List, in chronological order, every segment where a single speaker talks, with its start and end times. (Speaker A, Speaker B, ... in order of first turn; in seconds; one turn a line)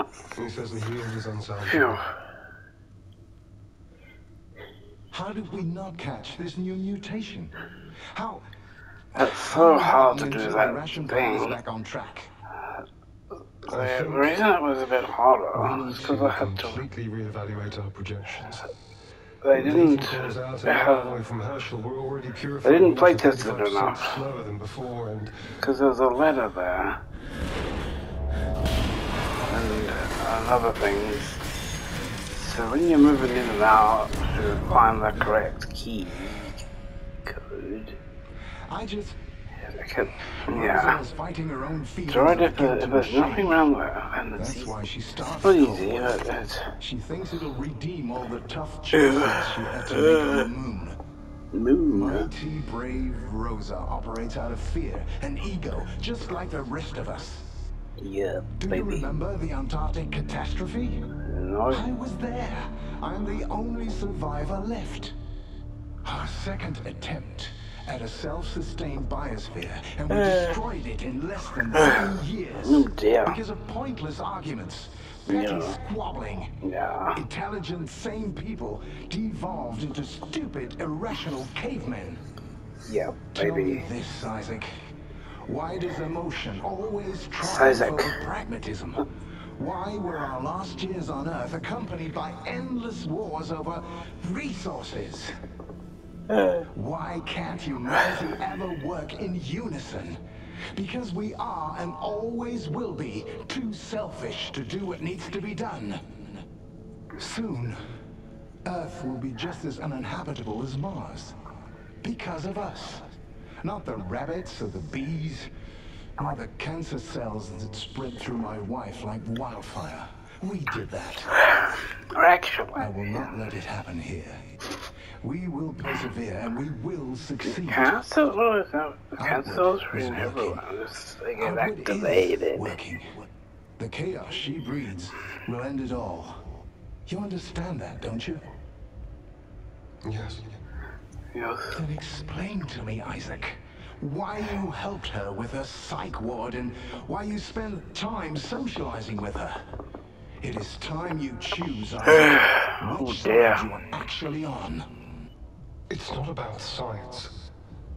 Speaker A: 0.3-2.0
Speaker B: 1.7-2.0
Speaker C: 5.1-7.5
Speaker C: 8.1-8.5
Speaker B: 9.2-11.6
Speaker C: 9.2-12.3
Speaker A: 13.7-14.5
Speaker B: 13.7-16.9
Speaker A: 15.5-18.7
Speaker B: 19.4-21.2
Speaker A: 19.5-25.6
Speaker B: 22.6-24.2
Speaker B: 25.6-27.0
Speaker B: 29.4-31.4
Speaker B: 32.3-36.6
Speaker B: 37.3-38.0
Speaker C: 38.7-39.2
Speaker B: 39.6-41.0
Speaker C: 40.5-43.6
Speaker B: 42.1-44.7
Speaker C: 44.4-46.2
Speaker B: 45.4-46.7
Speaker C: 46.8-51.0
Speaker B: 48.9-50.5
Speaker B: 51.5-52.3
Speaker C: 51.9-57.5
Speaker B: 58.0-59.1
Speaker C: 58.6-61.1
Speaker B: 61.2-61.8
Speaker C: 61.7-65.2
Speaker C: 66.0-76.6
Speaker B: 70.1-70.5
Speaker B: 71.8-72.0
Speaker B: 72.7-73.4
Speaker B: 75.3-75.8
Speaker B: 76.6-77.2
Speaker C: 77.1-82.2
Speaker B: 82.9-83.8
Speaker C: 83.3-95.3
Speaker B: 87.5-88.2
Speaker B: 96.3-96.7
Speaker C: 96.7-106.1
Speaker C: 107.2-107.8
Speaker C: 108.7-111.4
Speaker C: 112.0-113.1
Speaker C: 113.6-115.5
Speaker C: 116.2-121.3
Speaker B: 121.5-122.9
Speaker C: 122.8-124.5
Speaker C: 125.2-128.0
Speaker B: 127.5-132.7
Speaker C: 129.2-130.6
Speaker C: 131.4-136.4
Speaker C: 137.1-138.5
Speaker A: 140.0-140.6
Speaker B: 141.3-141.8
Speaker C: 141.7-149.6
Speaker C: 150.4-154.9
Speaker B: 152.1-153.6
Speaker A: 155.9-157.3